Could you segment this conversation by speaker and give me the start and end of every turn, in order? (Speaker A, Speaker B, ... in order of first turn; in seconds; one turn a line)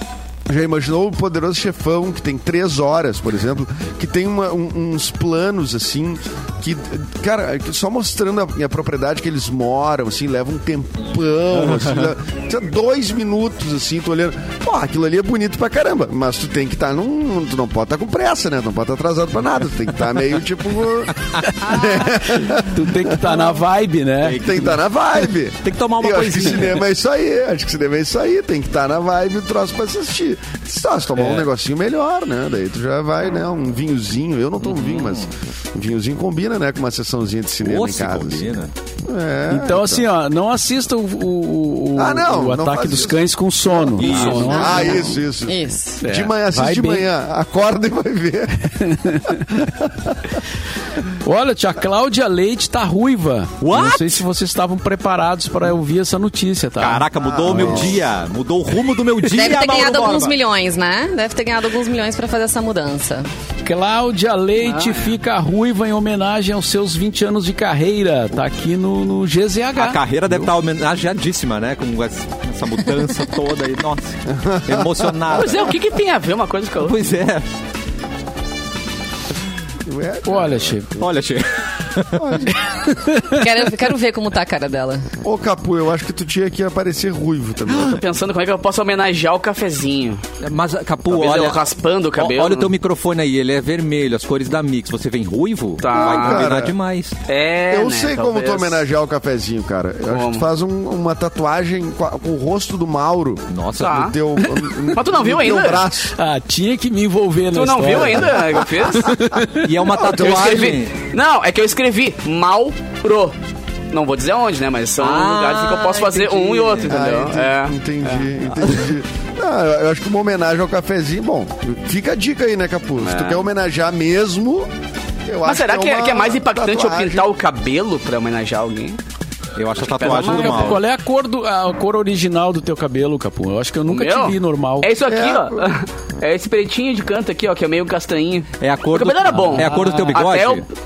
Speaker A: 0.5-23.4
Speaker B: 22.5-24.5
Speaker C: 24.2-24.6
Speaker A: 24.4-38.5
Speaker C: 25.6-26.8
Speaker C: 31.2-31.4
Speaker C: 34.6-35.3
Speaker C: 37.6-38.7
Speaker A: 39.0-40.1
Speaker B: 39.5-45.1
Speaker A: 42.0-48.7
Speaker C: 44.0-45.0
Speaker D: 44.2-46.0
Speaker B: 46.0-47.1
Speaker B: 48.7-49.5
Speaker A: 49.3-50.2
Speaker B: 51.1-57.9
Speaker C: 53.6-54.2
Speaker C: 56.8-60.4
Speaker A: 57.2-58.0
Speaker D: 59.3-63.3
Speaker B: 63.6-70.5
Speaker E: 64.7-65.1
Speaker C: 69.8-75.7
Speaker A: 74.3-75.3
Speaker E: 75.3-77.0
Speaker C: 76.8-77.4
Speaker A: 79.8-80.8
Speaker B: 80.2-80.9
Speaker C: 81.0-82.5
Speaker A: 82.1-82.6
Speaker B: 82.9-83.4
Speaker D: 83.3-85.0
Speaker A: 85.2-88.0
Speaker E: 87.7-90.2
Speaker C: 90.4-91.6
Speaker E: 91.1-92.7
Speaker C: 92.2-97.1
Speaker E: 95.8-96.5
Speaker A: 95.9-96.8
Speaker E: 97.3-98.8
Speaker A: 97.7-106.1
Speaker E: 100.1-100.5
Speaker C: 103.5-104.0
Speaker E: 103.8-104.1
Speaker E: 104.9-105.9
Speaker B: 106.1-109.7
Speaker E: 107.5-109.2
Speaker C: 109.5-110.9
Speaker A: 110.0-110.5
Speaker E: 110.1-113.3
Speaker E: 113.9-118.3
Speaker C: 115.0-116.9
Speaker A: 116.8-124.7
Speaker E: 123.0-123.4
Speaker A: 125.2-127.3
Speaker E: 125.4-129.0
Speaker C: 129.6-130.8
Speaker E: 129.8-130.8
Speaker B: 130.1-134.9
Speaker E: 133.9-140.7
Speaker A: 135.1-135.7
Speaker C: 138.6-140.7
Speaker B: 139.5-140.2